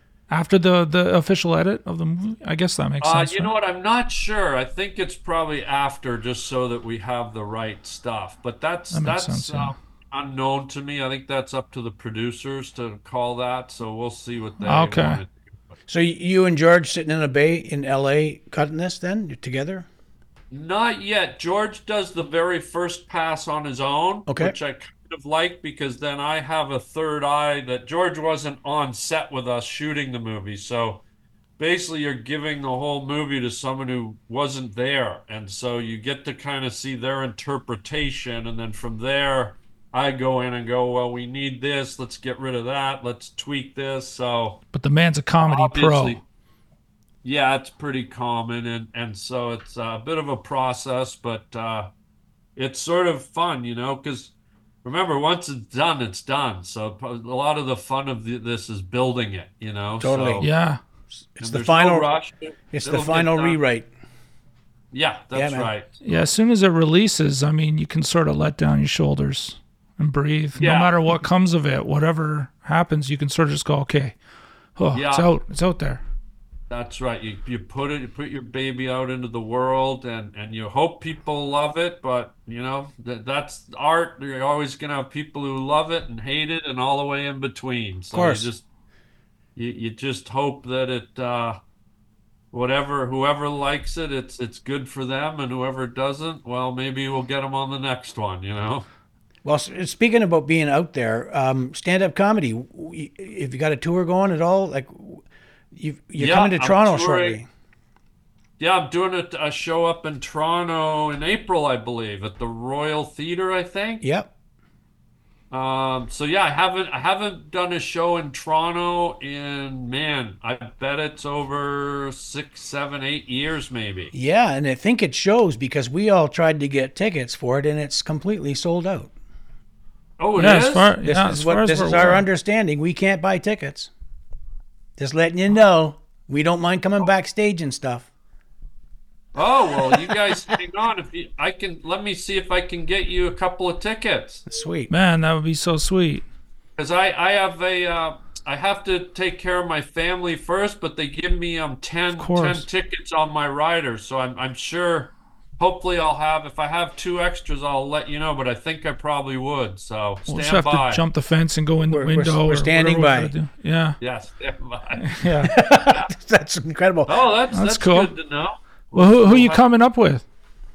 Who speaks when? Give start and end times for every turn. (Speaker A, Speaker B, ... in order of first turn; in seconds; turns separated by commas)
Speaker A: 0.3-3.5, Speaker B: 3.0-15.7, Speaker A: 8.9-9.7, Speaker A: 14.6-15.2, Speaker C: 15.9-19.9, Speaker B: 20.5-31.0, Speaker C: 24.3-24.6, Speaker B: 31.6-44.6, Speaker A: 44.7-46.2, Speaker B: 45.4-46.2, Speaker B: 47.2-51.9, Speaker B: 52.5-54.3, Speaker B: 54.8-60.5, Speaker C: 60.0-60.4, Speaker A: 60.4-60.8, Speaker C: 61.3-62.1, Speaker B: 61.4-63.6, Speaker C: 62.7-63.9, Speaker B: 64.9-66.0, Speaker C: 65.3-65.7, Speaker A: 66.0-74.1, Speaker B: 70.6-71.0, Speaker A: 74.8-76.0, Speaker B: 74.9-75.3, Speaker B: 76.7-88.6, Speaker C: 88.1-88.5, Speaker B: 89.5-91.6, Speaker B: 92.5-98.9, Speaker C: 99.4-107.5, Speaker B: 106.2-107.4, Speaker B: 108.6-114.0, Speaker C: 114.0-114.3, Speaker B: 115.5-124.1, Speaker C: 124.1-129.1, Speaker B: 130.2-130.9, Speaker A: 130.4-132.2, Speaker C: 131.0-133.9, Speaker C: 135.0-138.1, Speaker B: 139.3-144.4, Speaker C: 139.7-140.3, Speaker C: 144.5-144.9, Speaker A: 144.9-146.2, Speaker B: 146.8-161.0, Speaker A: 152.2-152.7, Speaker A: 160.3-164.0, Speaker C: 161.9-163.3, Speaker B: 164.0-166.1, Speaker A: 165.0-165.5, Speaker C: 165.4-167.1, Speaker B: 167.1-169.6, Speaker A: 167.5-168.1, Speaker A: 168.9-170.2